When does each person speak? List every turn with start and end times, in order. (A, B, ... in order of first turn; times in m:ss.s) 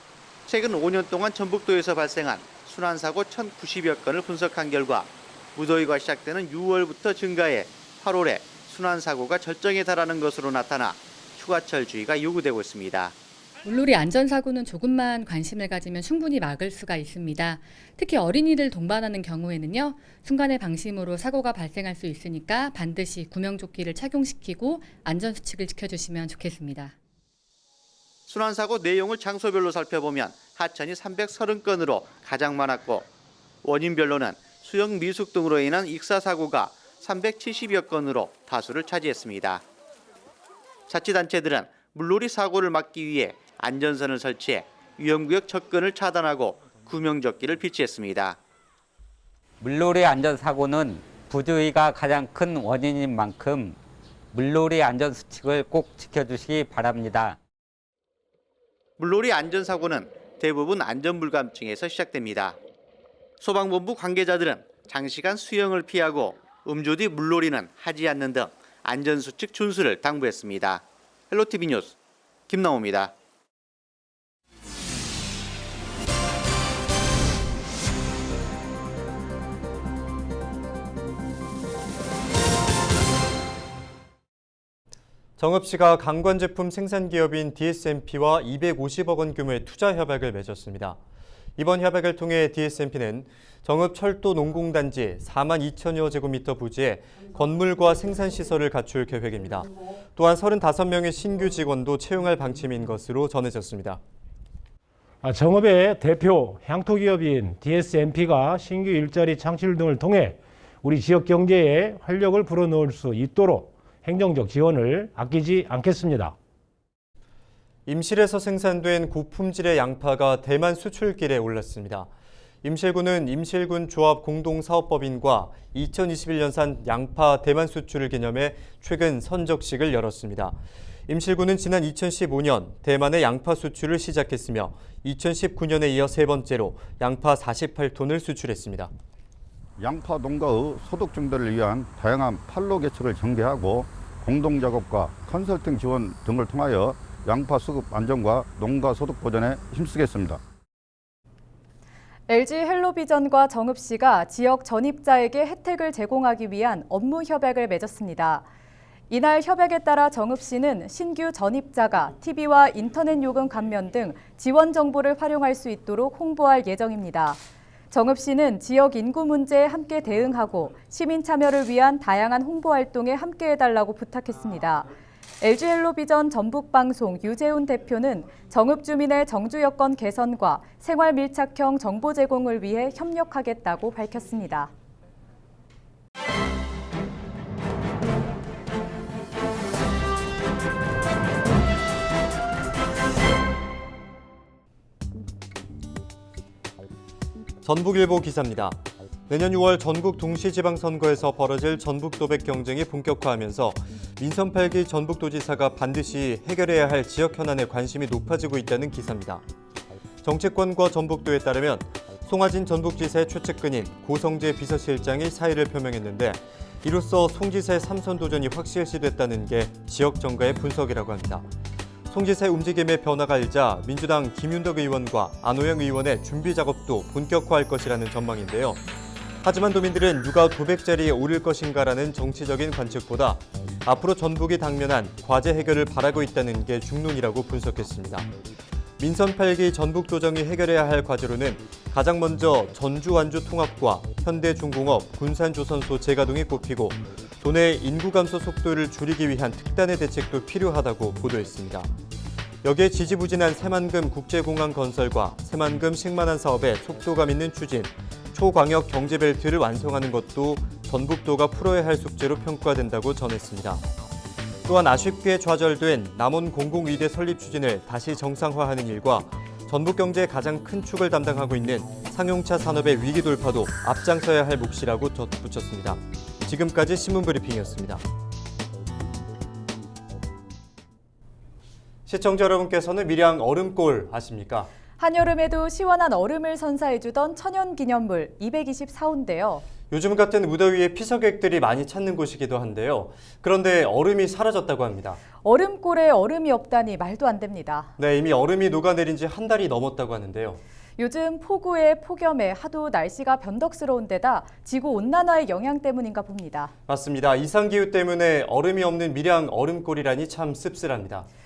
0:00.5-0:13.1 A
0:13.6-0:26.9 B
0:28.3-0:33.1 A
0:33.6-0:39.6 A
0:40.9-0:48.4 A
0:49.6-0:53.8 C
0:54.3-0:57.4 C
0:59.0-1:02.6 A
1:03.4-1:11.9 A
1:12.5-1:13.1 A
1:25.4-1:31.0 D
1:31.6-1:44.0 D
1:45.2-1:56.4 E
1:57.9-2:02.1 D
2:02.6-2:10.6 D
2:11.1-2:18.9 D
2:19.8-2:30.4 F
2:32.3-2:38.4 G
2:39.1-2:54.9 G
2:55.4-3:04.7 G
3:17.6-3:29.4 D
3:30.2-3:41.4 D
3:42.1-3:48.8 D
3:49.4-3:58.3 D
3:59.0-4:11.9 D
4:12.6-4:23.8 D
4:24.7-4:38.0 D
4:42.1-4:44.7 D
4:45.0-4:49.6 G
4:49.9-4:55.2 D
4:55.4-4:57.9 G
4:58.0-5:00.6 D
5:01.0-5:06.7 G
5:06.9-5:11.3 D